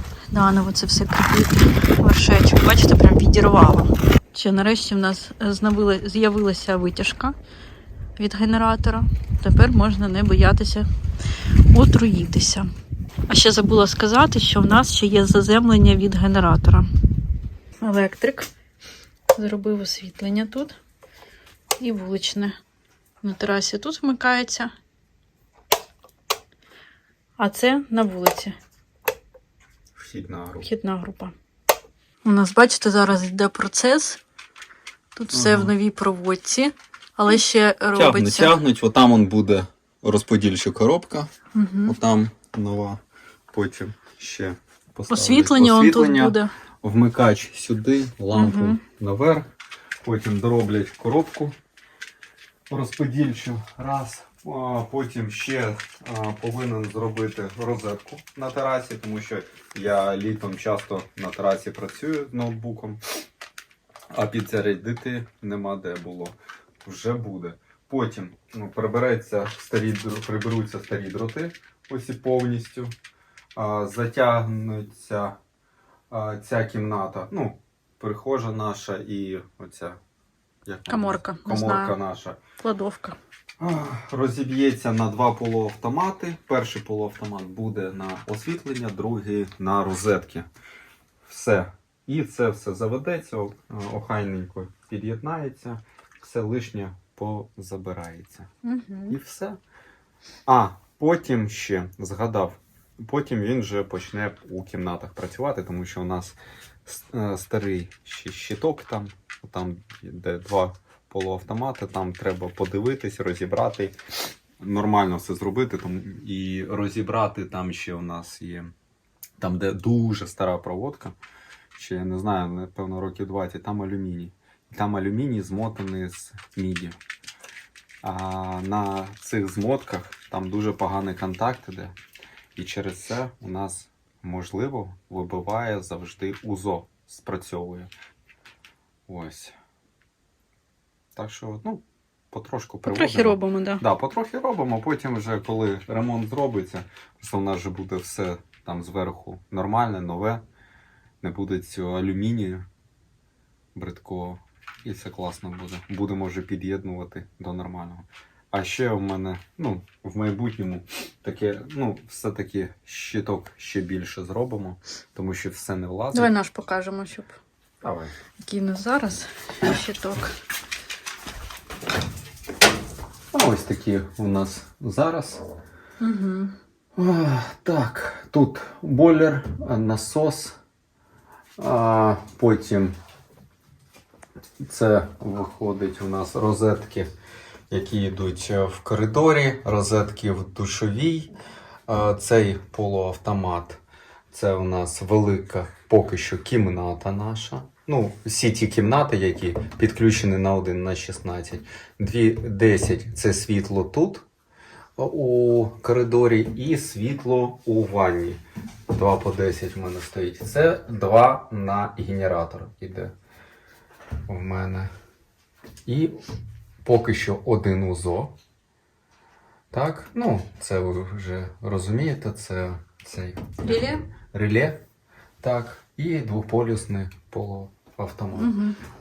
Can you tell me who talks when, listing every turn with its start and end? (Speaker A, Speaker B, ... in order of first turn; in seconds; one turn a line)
Speaker A: 0.3-7.3
Speaker A: 8.2-10.9
Speaker A: 11.7-12.7
Speaker A: 13.3-16.9
Speaker A: 17.8-18.5
Speaker A: 19.3-20.8
Speaker A: 21.8-22.6
Speaker A: 23.2-24.7
Speaker A: 27.4-28.6
Speaker B: 29.9-30.7
Speaker A: 30.6-31.3
Speaker A: 32.2-34.2
Speaker A: 35.1-38.6
Speaker B: 35.3-35.7
Speaker B: 37.9-41.3
Speaker A: 41.5-42.0
Speaker B: 41.9-43.0
Speaker B: 43.5-49.5
Speaker A: 45.1-46.5
Speaker A: 48.3-48.8
Speaker B: 50.0-51.6
Speaker B: 52.7-63.0
Speaker B: 64.1-72.9
Speaker B: 73.6-75.4
Speaker B: 76.1-80.0
Speaker B: 80.7-82.4
Speaker A: 80.9-82.0
Speaker A: 82.6-83.2
Speaker B: 83.6-90.5
Speaker B: 91.3-98.5
Speaker A: 98.6-99.2
Speaker B: 99.1-99.6
Speaker B: 100.5-114.0
Speaker B: 114.6-118.7
Speaker B: 119.4-121.2
Speaker B: 121.8-127.0
Speaker B: 128.0-132.0
Speaker B: 132.6-137.9
Speaker B: 139.1-139.6
Speaker B: 141.2-150.4
Speaker A: 142.9-143.8
Speaker B: 151.2-152.7
Speaker B: 153.8-166.3
Speaker A: 166.1-167.4
Speaker B: 167.8-168.1
Speaker A: 168.4-170.3
Speaker B: 173.3-175.4
Speaker A: 176.0-176.5
Speaker B: 177.0-180.6
Speaker B: 181.6-183.0
Speaker B: 184.6-187.1
Speaker B: 187.7-191.3
Speaker B: 191.9-193.8
Speaker B: 194.3-204.2
Speaker B: 205.0-213.1
Speaker B: 214.3-214.9
Speaker B: 215.9-216.2
Speaker B: 216.8-218.3
Speaker B: 219.7-224.8
Speaker A: 223.6-224.1
Speaker B: 225.4-228.5
Speaker A: 228.3-228.8